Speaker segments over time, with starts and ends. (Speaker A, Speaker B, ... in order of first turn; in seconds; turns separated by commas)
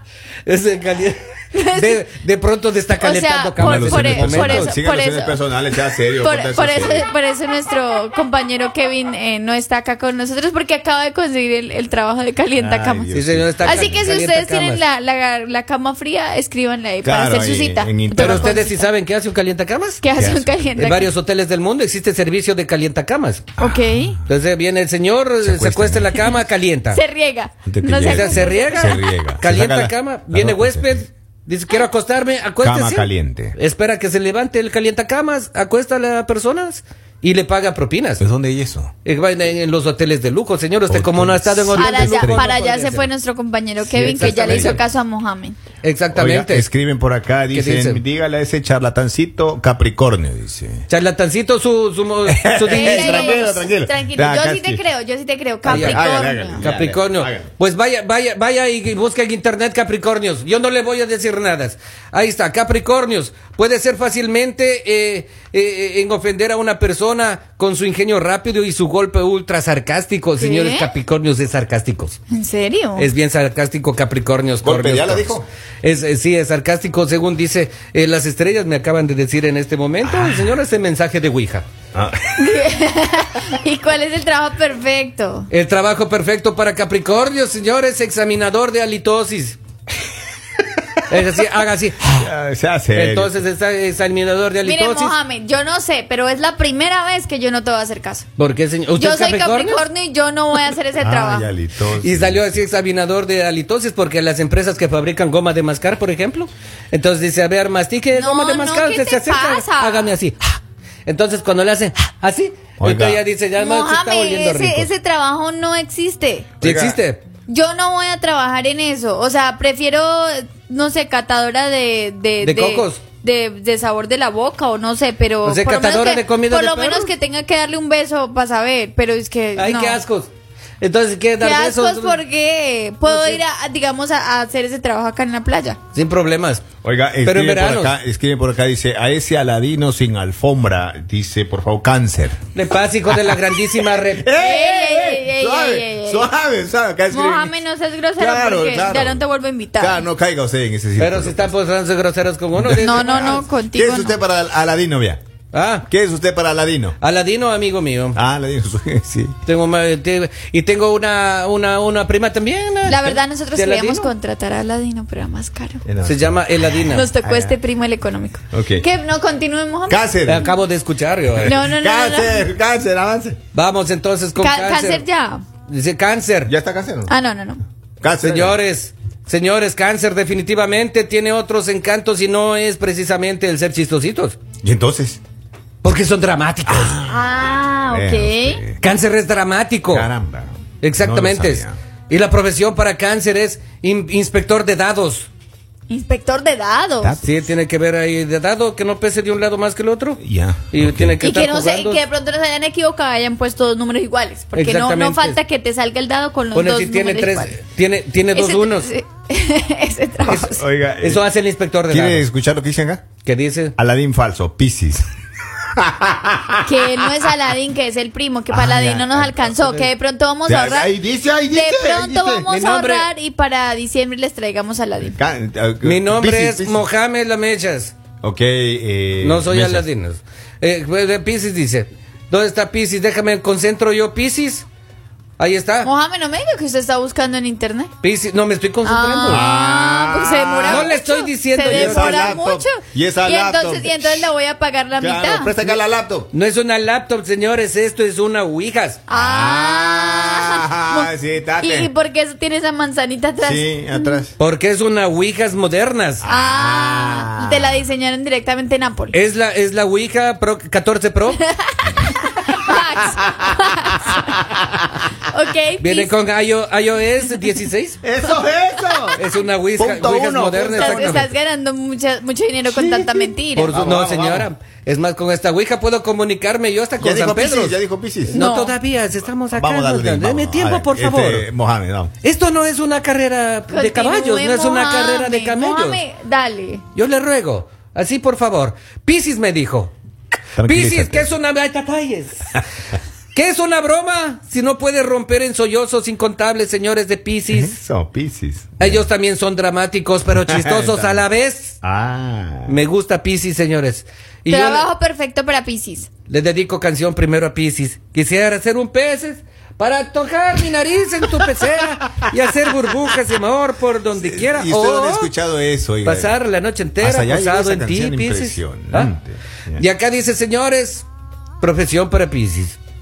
Speaker A: 0.5-4.8, Speaker B: 1.5-2.0, Speaker B: 3.0-5.4, Speaker C: 3.6-7.1, Speaker B: 6.2-18.9, Speaker C: 12.6-14.0, Speaker A: 13.1-14.8, Speaker C: 17.0-18.6, Speaker A: 18.1-20.1, Speaker B: 20.0-21.1, Speaker C: 20.1-20.7, Speaker A: 20.8-23.5, Speaker C: 23.6-24.2, Speaker B: 23.6-24.2, Speaker A: 24.3-27.0, Speaker C: 25.4-26.3, Speaker B: 26.9-29.1, Speaker C: 27.6-31.1, Speaker A: 28.0-38.2, Speaker C: 32.6-33.6, Speaker C: 38.2-38.9, Speaker A: 39.0-43.1, Speaker C: 40.9-42.5, Speaker B: 41.8-45.6, Speaker A: 43.9-44.8, Speaker C: 44.1-44.8, Speaker A: 45.8-46.7, Speaker C: 46.1-50.9, Speaker A: 47.5-48.0, Speaker A: 50.9-53.4, Speaker C: 52.3-54.9, Speaker B: 52.7-56.7, Speaker C: 55.6-57.5, Speaker A: 55.7-56.1, Speaker A: 56.6-72.2, Speaker B: 70.4-70.9, Speaker B: 72.3-73.1, Speaker A: 73.0-81.7, Speaker C: 74.6-75.5, Speaker C: 80.0-80.6, Speaker C: 81.9-82.5, Speaker B: 82.4-85.5, Speaker A: 85.5-89.6, Speaker A: 91.1-92.2, Speaker C: 92.1-93.4, Speaker A: 92.9-95.2, Speaker B: 94.6-98.3, Speaker A: 98.4-99.8, Speaker B: 99.0-101.5, Speaker C: 101.0-102.5, Speaker A: 102.0-114.9, Speaker B: 108.1-110.1, Speaker C: 112.8-113.2, Speaker B: 113.6-116.5, Speaker A: 116.6-117.2, Speaker C: 116.6-117.0, Speaker B: 117.5-130.0, Speaker A: 122.4-123.0, Speaker A: 125.4-127.1, Speaker A: 129.6-130.3, Speaker A: 130.8-132.2, Speaker B: 131.4-135.8, Speaker A: 133.1-133.4, Speaker A: 135.9-136.7, Speaker C: 136.8-142.4, Speaker A: 137.2-138.0, Speaker A: 142.6-144.3, Speaker C: 143.3-147.6, Speaker B: 144.4-146.3, Speaker B: 147.1-150.0, Speaker C: 148.2-149.2, Speaker C: 149.8-151.5, Speaker A: 151.0-153.4, Speaker C: 152.6-155.2, Speaker B: 152.8-154.2, Speaker A: 155.5-155.9, Speaker C: 155.9-157.0, Speaker A: 157.0-158.2, Speaker C: 158.2-159.3, Speaker A: 159.5-163.0, Speaker B: 162.8-165.8, Speaker C: 162.9-163.2, Speaker A: 163.6-164.1, Speaker C: 165.8-167.6, Speaker A: 166.0-167.1, Speaker B: 166.8-170.5, Speaker C: 168.5-168.8, Speaker C: 169.9-170.5, Speaker A: 170.3-171.6, Speaker C: 171.3-173.4, Speaker B: 171.4-172.5, Speaker A: 173.5-175.1, Speaker B: 174.4-175.4, Speaker A: 175.7-176.5, Speaker C: 176.5-177.1, Speaker B: 177.1-177.6, Speaker C: 178.0-178.6, Speaker A: 178.2-184.4, Speaker C: 184.6-185.2, Speaker A: 185.8-187.0, Speaker C: 186.7-188.8, Speaker B: 187.1-188.6, Speaker A: 188.8-190.1, Speaker C: 189.9-191.8, Speaker A: 190.8-195.3, Speaker B: 195.9-197.2, Speaker C: 197.0-197.3, Speaker A: 197.2-202.0, Speaker C: 200.2-201.2, Speaker B: 201.2-207.6, Speaker A: 204.5-205.4, Speaker A: 206.5-208.9, Speaker B: 208.3-210.6, Speaker C: 210.2-211.2, Speaker A: 210.3-212.2, Speaker C: 211.9-213.1, Speaker A: 213.2-213.8, Speaker C: 213.8-215.1, Speaker C: 215.8-217.1, Speaker B: 216.6-221.0, Speaker C: 218.5-219.5, Speaker A: 219.4-219.9, Speaker C: 220.4-222.5, Speaker B: 221.5-225.2, Speaker A: 222.5-223.1, Speaker C: 225.2-226.8, Speaker A: 225.8-227.9, Speaker C: 228.2-229.9, Speaker A: 229.2-234.7, Speaker A: 235.4-235.9, Speaker B: 235.8-237.9, Speaker A: 238.0-239.5, Speaker B: 238.8-245.6, Speaker C: 239.3-240.9, Speaker A: 240.6-242.4, Speaker C: 241.6-244.3, Speaker C: 245.0-246.3, Speaker A: 246.3-249.0, Speaker B: 249.1-254.2, Speaker C: 249.1-251.9, Speaker C: 253.4-254.3, Speaker A: 254.4-256.2, Speaker C: 256.2-257.8, Speaker B: 256.2-259.1, Speaker A: 259.1-261.4, Speaker B: 261.4-264.4, Speaker C: 262.6-263.4, Speaker C: 263.9-264.8, Speaker B: 265.2-266.1, Speaker A: 265.8-268.0, Speaker C: 268.0-269.2, Speaker A: 269.2-271.3, Speaker C: 269.8-271.3, Speaker B: 270.7-273.8, Speaker C: 272.7-274.5, Speaker A: 273.6-281.5, Speaker C: 277.0-278.4, Speaker B: 278.3-278.8, Speaker C: 279.5-282.1, Speaker A: 282.2-286.0, Speaker B: 283.7-286.8, Speaker A: 286.9-289.9, Speaker C: 290.6-291.3, Speaker A: 290.6-292.6, Speaker A: 293.4-297.8, Speaker C: 297.5-299.1, Speaker A: 298.8-301.8, Speaker C: 300.5-301.2, Speaker C: 301.8-302.8, Speaker A: 302.7-304.9, Speaker B: 304.5-306.1, Speaker A: 306.3-315.3, Speaker C: 314.1-316.4, Speaker A: 316.0-319.1, Speaker C: 317.0-319.8, Speaker A: 319.8-321.1, Speaker A: 321.6-322.8